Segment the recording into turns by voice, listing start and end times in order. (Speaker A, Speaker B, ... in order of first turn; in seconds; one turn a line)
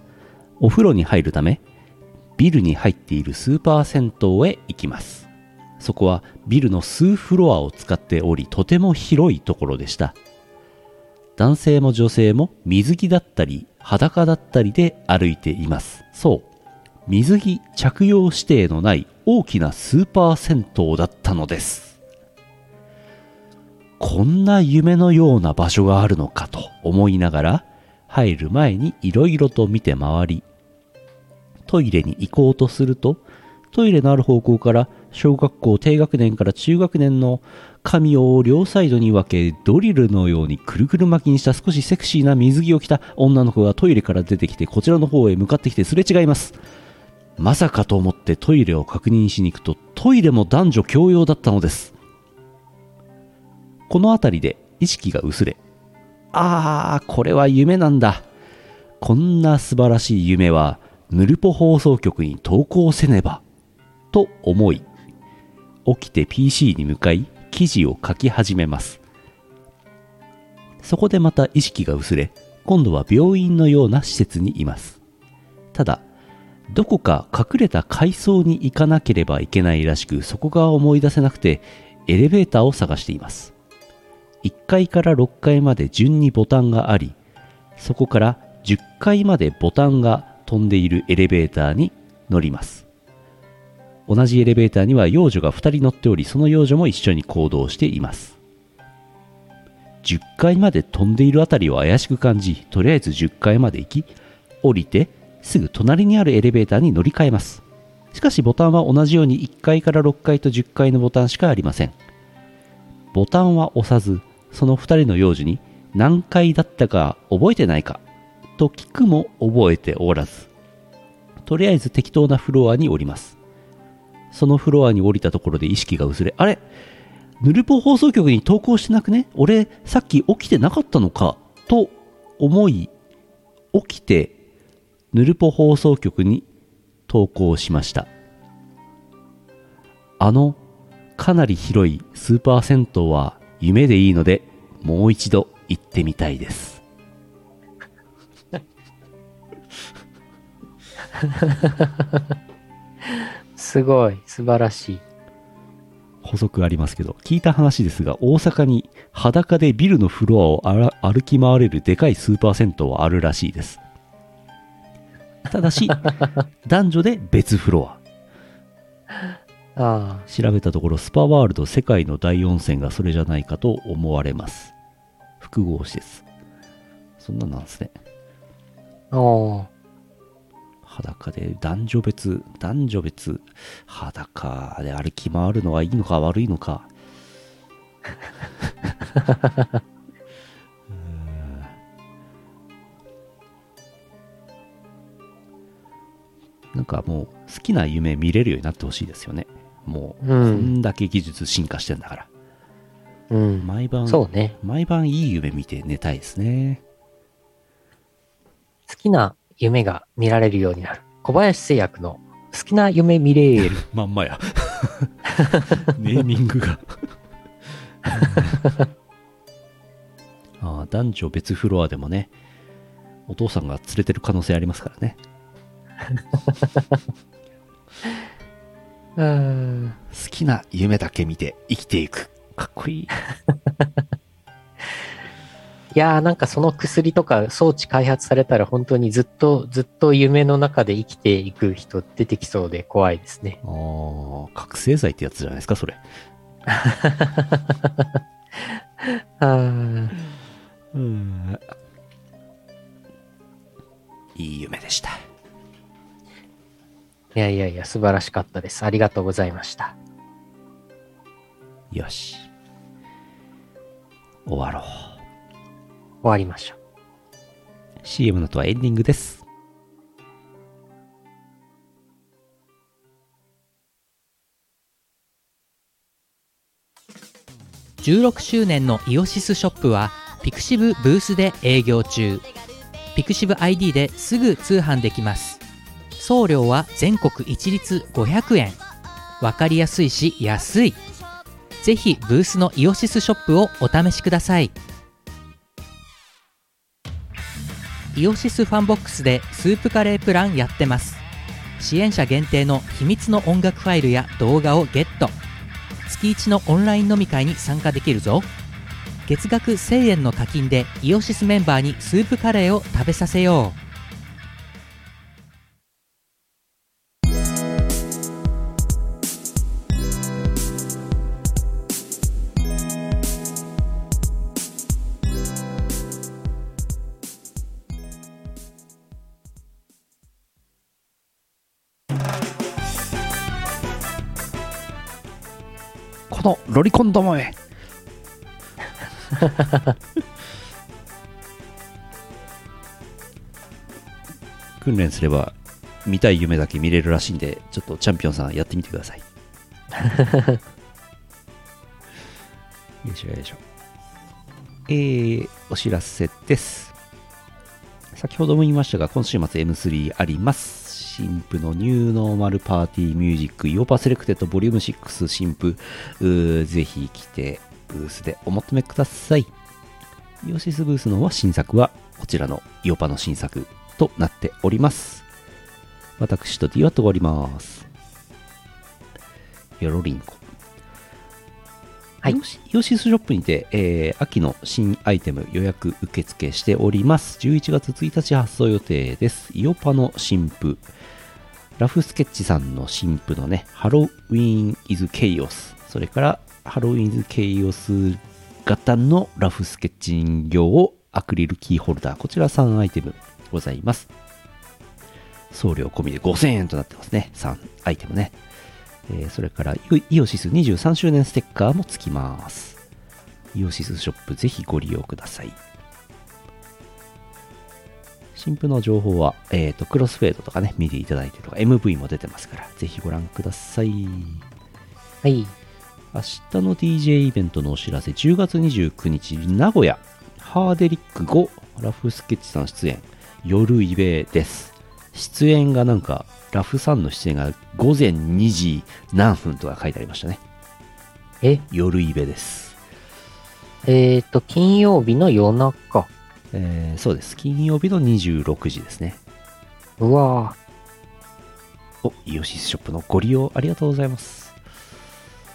Speaker A: 0.6-1.6
Speaker A: 2.4-5.3
Speaker A: 5.8-10.2
Speaker A: 11.4-16.5
Speaker A: 17.1-22.0
Speaker A: 24.0-30.4
Speaker A: 31.7-46.6
Speaker A: 47.4-51.9
Speaker A: 53.9-55.6
Speaker A: 56.3-58.2
Speaker A: 59.0-63.4
Speaker A: 64.1-64.9
Speaker A: 65.8-69.0
Speaker A: 70.8-75.0
Speaker A: 75.7-76.0
Speaker A: 76.7-83.5
Speaker A: 84.4-87.2
Speaker A: 87.8-92.8
Speaker A: 94.1-98.4
Speaker A: 100.0-112.0
Speaker A: 113.1-118.0
Speaker A: 118.6-120.5
Speaker A: 121.4-123.4
Speaker A: 124.3-126.6
Speaker A: 127.4-132.9
Speaker A: 133.7-134.3
Speaker A: 135.1-136.4
Speaker A: 137.1-138.1
Speaker A: 140.2-140.6
Speaker A: 141.2-146.8
Speaker B: 151.2-152.0
Speaker B: 153.6-155.0
Speaker A: 156.2-163.8
Speaker A: 165.5-168.0
Speaker B: 169.8-170.2
Speaker A: 170.3-174.7
Speaker A: 175.4-176.2
Speaker A: 177.2-177.9
Speaker B: 179.1-179.7
Speaker A: 180.8-186.9
Speaker A: 190.9-191.7
Speaker A: 196.7-202.3
Speaker B: 200.2-200.7
Speaker B: 203.3-204.6
Speaker A: 203.6-206.8
Speaker B: 208.9-213.8
Speaker A: 213.7-217.0
Speaker A: 218.1-218.6
Speaker B: 218.3-218.7
Speaker A: 220.6-222.3
Speaker A: 223.3-225.2
Speaker B: 229.2-230.0
Speaker A: 230.1-233.1
Speaker B: 235.9-243.6
Speaker A: 243.6-246.0
Speaker B: 246.7-248.1
Speaker B: 249.0-250.1
Speaker A: 250.9-251.7
Speaker A: 254.3-255.2
Speaker B: 257.4-259.9
Speaker A: 261.9-262.5
Speaker A: 264.4-265.2
Speaker B: 266.2-266.8
Speaker A: 268.0-269.4
Speaker C: 278.0-282.5
Speaker C: 283.1-285.6
Speaker C: 286.2-288.8
Speaker C: 289.4-291.0
Speaker C: 291.8-294.7
Speaker C: 298.1-301.2
Speaker C: 301.8-305.4
Speaker C: 306.1-308.5
Speaker C: 309.2-313.8
Speaker A: 336.3-337.6
Speaker A: 344.8-349.2
Speaker B: 350.0-350.6
Speaker A: 353.0-353.6
Speaker A: 354.9-356.9
Speaker A: 358.1-369.5
Speaker A: 370.4-375.2
Speaker A: 376.2-377.9
Speaker A: 379.8-380.4
Speaker A: 382.2-390.9
Speaker A: 391.8-404.1
Speaker A: 405.5-408.4
Speaker A: 409.1-412.8
Speaker A: 413.5-415.6
Speaker A: 418.3-424.4
Speaker B: 425.2-425.5
Speaker A: 426.1-440.4
Speaker A: 441.7-442.8
Speaker B: 443.8-446.1
Speaker A: 446.5-449.2
Speaker B: 450.0-450.6
Speaker A: 452.0-454.6